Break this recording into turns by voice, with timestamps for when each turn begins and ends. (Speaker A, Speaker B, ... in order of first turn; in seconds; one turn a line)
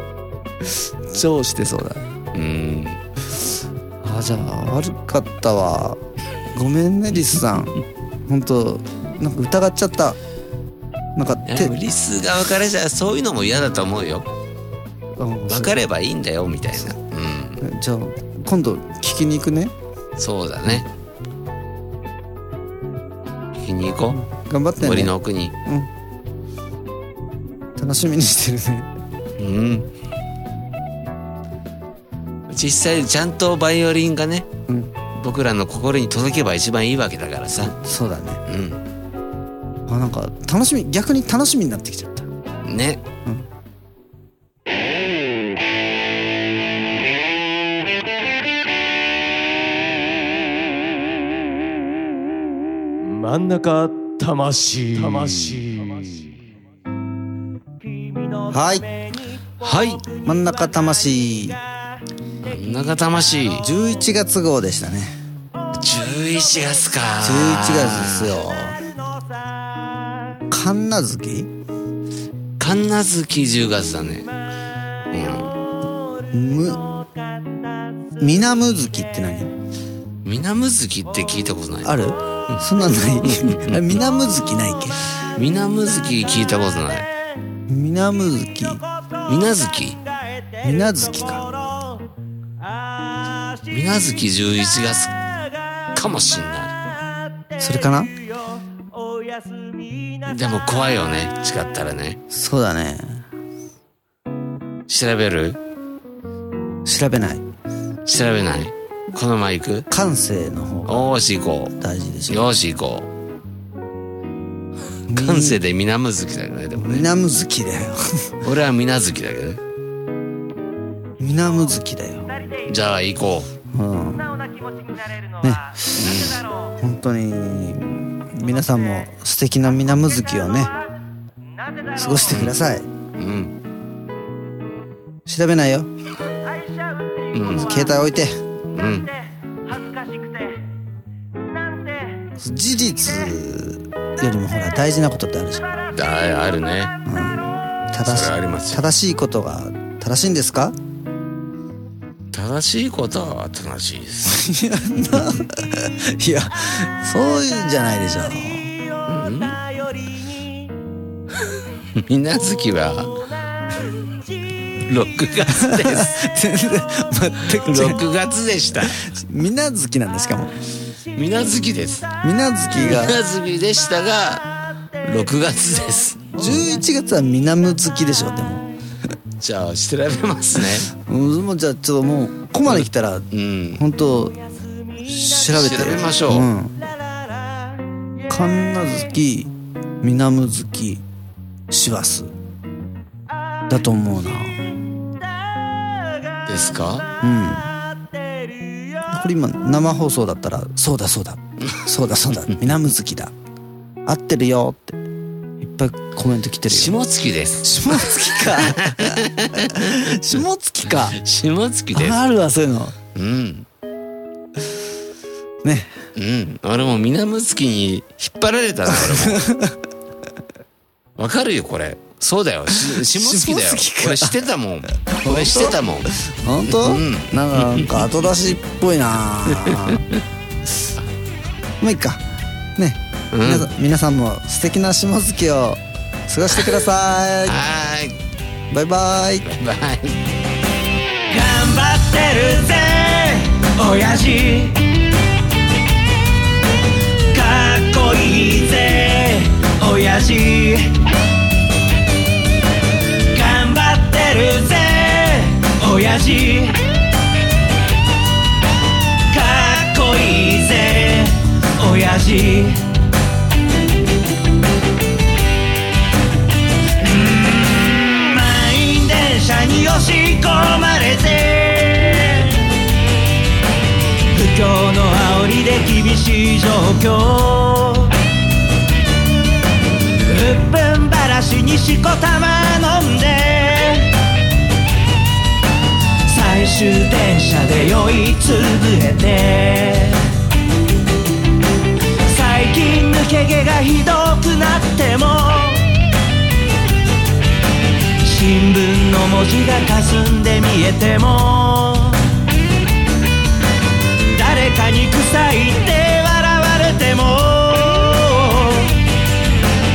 Speaker A: 0.6-2.0
Speaker B: 2.3-3.0
Speaker A: 4.0-6.0
Speaker A: 6.5-10.2
Speaker A: 11.2-11.7
Speaker B: 11.5-14.3
Speaker A: 15.2-15.8
Speaker B: 15.5-17.6
Speaker A: 17.6-19.7
Speaker B: 20.2-20.9
Speaker B: 23.6-24.2
Speaker A: 24.1-25.1
Speaker B: 24.8-25.5
Speaker A: 25.6-25.9
Speaker A: 27.8-28.9
Speaker B: 29.4-29.9
Speaker B: 32.5-34.5
Speaker A: 34.7-34.9
Speaker B: 35.1-37.8
Speaker A: 37.6-38.4
Speaker B: 38.5-38.8
Speaker A: 39.9-42.3
Speaker B: 42.6-43.0
Speaker C: 53.0-56.4
Speaker D: 58.2-58.5
Speaker A: 58.5-58.9
Speaker B: 59.6-60.0
Speaker A: 60.1-61.6
Speaker B: 62.4-63.7
Speaker A: 63.6-65.2
Speaker B: 65.8-68.4
Speaker A: 67.2-68.8
Speaker A: 70.5-71.5
Speaker B: 72.6-74.3
Speaker B: 75.1-75.5
Speaker A: 76.3-76.8
Speaker A: 78.2-79.5
Speaker B: 80.2-82.6
Speaker A: 81.8-85.1
Speaker B: 83.2-84.0
Speaker B: 85.4-87.1
Speaker A: 87.7-88.8
Speaker B: 89.3-90.0
Speaker A: 90.6-91.5
Speaker B: 93.7-95.2
Speaker B: 95.9-96.8
Speaker A: 97.6-98.1
Speaker B: 100.3-102.2
Speaker A: 102.3-103.3
Speaker B: 104.9-105.6
Speaker A: 106.8-107.4
Speaker B: 108.1-109.9
Speaker A: 109.9-111.1
Speaker B: 110.9-111.7
Speaker A: 111.8-112.5
Speaker B: 112.3-113.1
Speaker A: 115.1-115.6
Speaker B: 115.1-117.1
Speaker A: 116.8-118.3
Speaker B: 118.4-119.6
Speaker A: 121.2-122.3
Speaker B: 122.7-123.5
Speaker A: 123.7-124.3
Speaker A: 125.4-130.7
Speaker B: 126.0-126.4
Speaker A: 131.9-132.9
Speaker B: 132.3-132.6
Speaker B: 133.2-133.6
Speaker A: 135.3-135.9
Speaker B: 137.3-137.8
Speaker A: 137.6-138.4
Speaker B: 138.7-139.1
Speaker D: 139.7-140.5
Speaker A: 142.4-145.8
Speaker B: 145.9-146.9
Speaker A: 147.1-150.8
Speaker B: 148.0-148.8
Speaker B: 152.3-154.5
Speaker A: 154.2-158.7
Speaker B: 159.1-159.6
Speaker B: 162.0-163.2
Speaker B: 164.9-166.2
Speaker A: 165.5-168.0
Speaker B: 167.5-169.0
Speaker A: 168.9-170.6
Speaker B: 171.2-172.1
Speaker A: 172.2-173.2
Speaker B: 172.7-174.4
Speaker B: 175.0-176.6
Speaker A: 176.3-178.7
Speaker B: 179.4-180.9
Speaker A: 180.9-184.4
Speaker B: 182.7-183.8
Speaker A: 185.0-186.8
Speaker B: 185.4-186.5
Speaker A: 188.3-191.0
Speaker A: 191.7-192.3
Speaker A: 193.7-194.6
Speaker B: 196.5-197.1
Speaker A: 197.2-197.7
Speaker A: 199.1-203.3
Speaker A: 204.1-205.0
Speaker A: 205.6-207.0
Speaker B: 206.7-210.4
Speaker A: 207.6-211.2
Speaker B: 210.9-212.2
Speaker A: 211.9-212.9
Speaker B: 213.2-213.7
Speaker A: 215.6-215.9
Speaker B: 216.2-219.4
Speaker A: 218.9-219.8
Speaker B: 221.2-227.9
Speaker A: 222.7-224.3
Speaker A: 225.2-230.1
Speaker B: 229.6-229.9
Speaker A: 231.8-232.2
Speaker A: 232.8-237.6
Speaker B: 233.3-233.7
Speaker B: 237.5-238.2
Speaker A: 238.7-239.5
Speaker B: 239.4-240.2
Speaker D: 241.3-244.8
Speaker D: 247.3-251.0
Speaker D: 253.3-256.8
Speaker D: 259.3-262.8
Speaker D: 267.0-272.7
Speaker D: 274.3-278.1
Speaker D: 280.3-284.1
Speaker D: 286.2-290.3
Speaker D: 292.2-295.9
Speaker D: 298.2-302.3
Speaker D: 304.3-309.0